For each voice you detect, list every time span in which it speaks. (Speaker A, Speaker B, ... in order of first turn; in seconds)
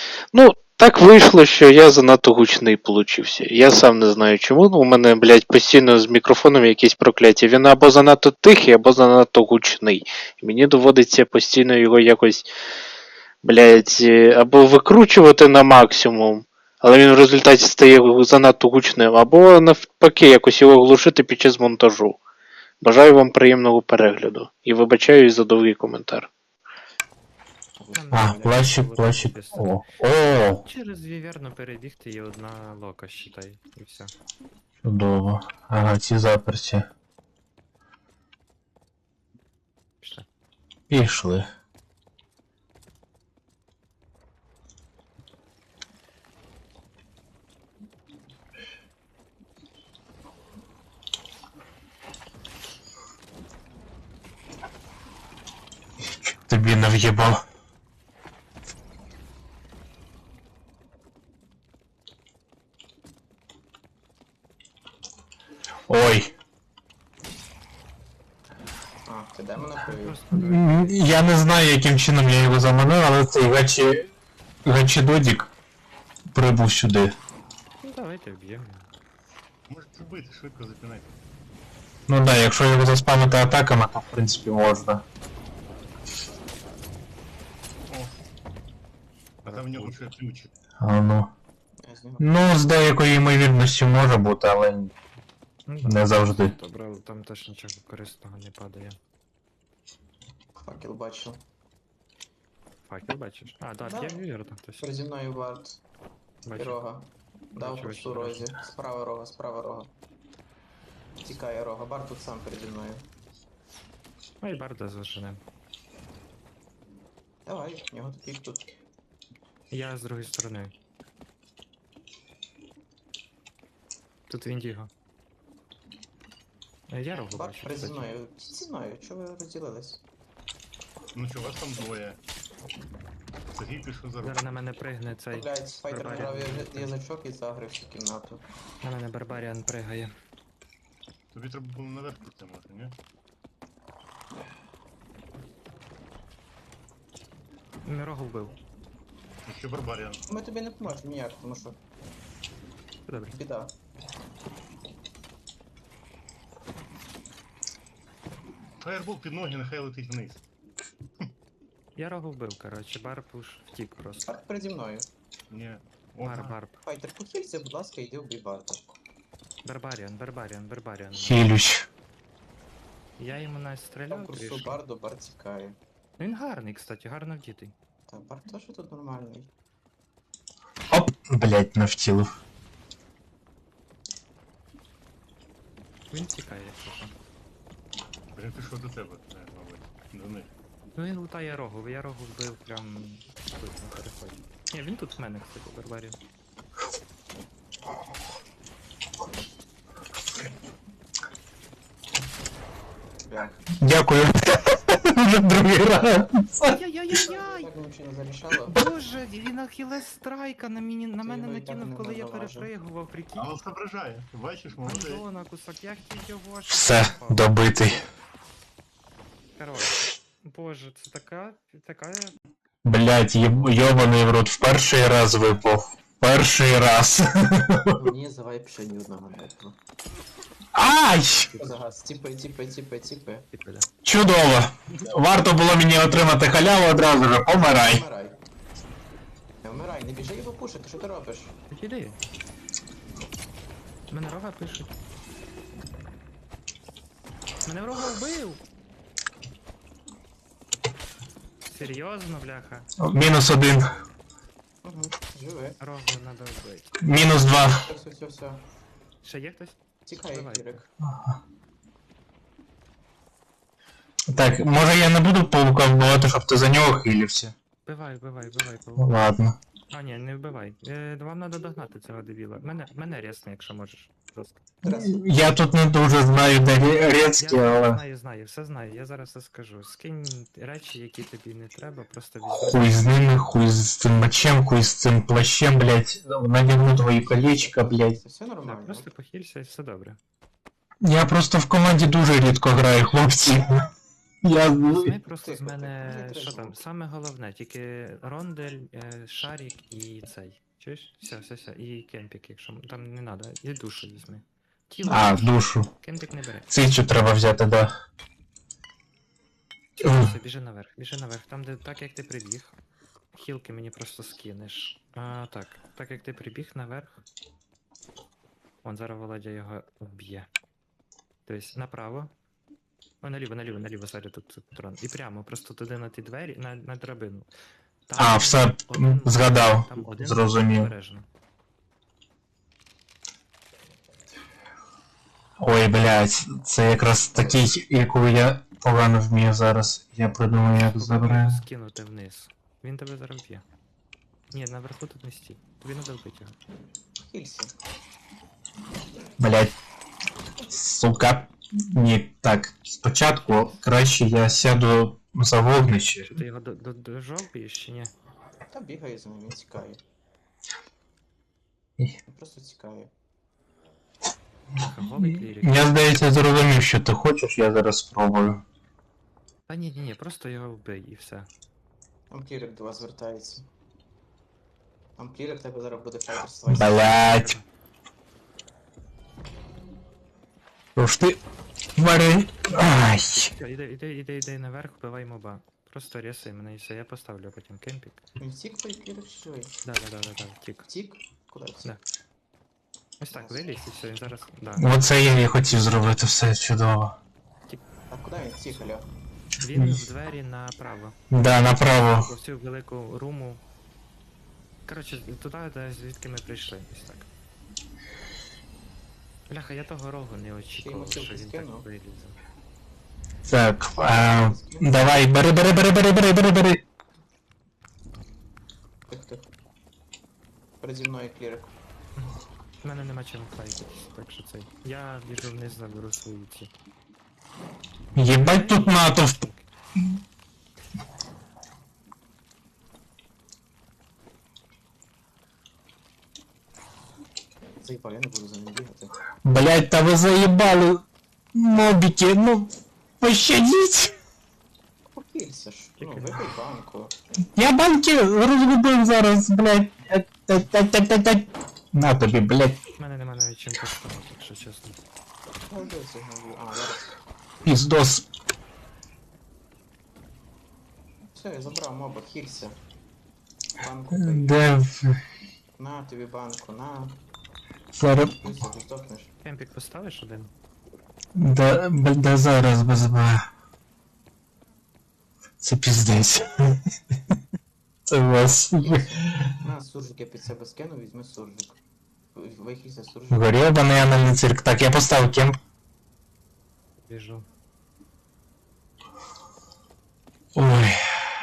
Speaker A: 0.3-12.4, 13.4-22.2, 22.8-26.3
Speaker B: 27.8-28.5, 69.0-70.2, 91.8-92.3, 100.6-101.4, 103.8-104.2, 104.8-105.8, 106.5-109.9, 111.2-113.0, 117.5-118.7, 127.3-130.0, 135.3-138.4, 150.3-151.8, 153.3-153.7, 164.2-165.1, 166.8-168.9, 174.1-175.8, 178.1-179.5, 203.3-203.6, 207.1-208.7, 211.2-212.7, 227.9-229.8, 231.6-233.4, 237.5-238.4, 239.6-241.5, 254.8-255.8, 257.8-258.6, 260.1-260.9, 274.8-275.2, 287.0-289.1, 295.4-296.8, 347.2-347.7, 358.7-360.0, 362.3-363.1, 372.3-373.7, 375.2-377.3, 388.4-389.7, 390.9-391.9, 393.3-393.8, 398.1-399.1, 410.8-411.9, 414.0-415.0, 419.1-419.5, 420.8-421.7, 437.8-439.1, 445.1-447.1, 455.7-457.1, 461.3-462.8, 463.8-464.6, 465.8-467.2, 468.4-469.3, 478.8-481.8, 482.3-483.5
Speaker C: 27.9-29.8, 30.6-34.1, 40.0-40.2, 69.6-71.1, 77.8-78.9, 89.4-90.0, 95.7-99.0, 102.9-105.0, 106.4-106.8, 107.5-108.5, 114.4-115.4, 119.7-120.7, 124.3-124.9, 126.9-128.1, 134.2-136.9, 138.8-140.1, 147.8-148.6, 153.1-153.4, 161.9-164.4, 166.2-166.8, 169.6-171.5, 173.2-174.8, 176.2-177.7, 186.1-187.1, 190.9-196.2, 206.6-207.7, 208.7-213.5, 214.8-217.5, 219.6-222.3, 231.6-231.8, 233.5-233.9, 241.7-242.2, 244.1-244.9, 247.6-248.6, 251.6-252.9, 255.8-257.0, 259.2-260.8, 267.8-269.1, 269.9-274.6, 277.4-283.0, 288.6-290.2, 294.8-306.9, 310.0-312.8, 313.3-317.2, 318.8-320.5, 321.4-322.3, 323.2-327.5, 328.1-331.3, 340.7-343.6, 344.5-346.6, 356.3-358.1, 364.8-366.1, 369.7-371.5, 377.1-377.6, 383.3-388.2, 389.8-390.9, 393.2-394.9, 399.6-403.6, 404.9-407.3, 409.5-412.4, 422.1-426.7, 428.3-429.7, 446.0-446.5, 452.9-455.0, 469.4-470.5, 487.0-487.5
Speaker D: 28.1-30.6, 34.8-36.9, 40.9-41.5, 56.4-57.4, 65.9-66.3, 70.3-74.1, 74.6-75.5, 76.3-77.2, 82.1-85.0, 90.8-91.3, 92.2-94.9, 95.8-96.5, 171.2-171.9, 180.9-182.3, 203.8-206.8, 216.7-218.0, 222.8-228.0, 230.7-231.6, 234.0-238.0, 253.0-253.9, 257.0-257.8, 264.3-267.5, 269.0-269.6, 274.8-278.0, 282.6-288.2, 291.0-293.9, 294.4-295.1, 305.1-305.9, 306.7-307.9, 310.0-310.3, 328.1-330.9, 335.6-341.6, 349.4-349.8, 350.6-356.3, 365.6-368.6, 376.7-377.6, 380.9-381.4, 381.9-383.5, 394.8-397.2, 399.7-400.1, 401.3-402.3, 413.4-416.8, 428.1-429.4, 439.4-441.0, 441.5-444.1, 447.5-452.8, 457.6-458.2, 464.1-465.2, 467.9-468.4, 471.3-473.4, 475.6-476.8, 478.1-479.3, 483.3-485.6, 490.5-490.9
Speaker E: 79.7-81.2, 87.9-88.2, 89.4-90.5, 131.1-132.2, 133.5-134.4, 141.3-142.9, 149.4-150.2, 158.8-160.4, 165.5-166.6, 188.3-190.5, 213.3-215.2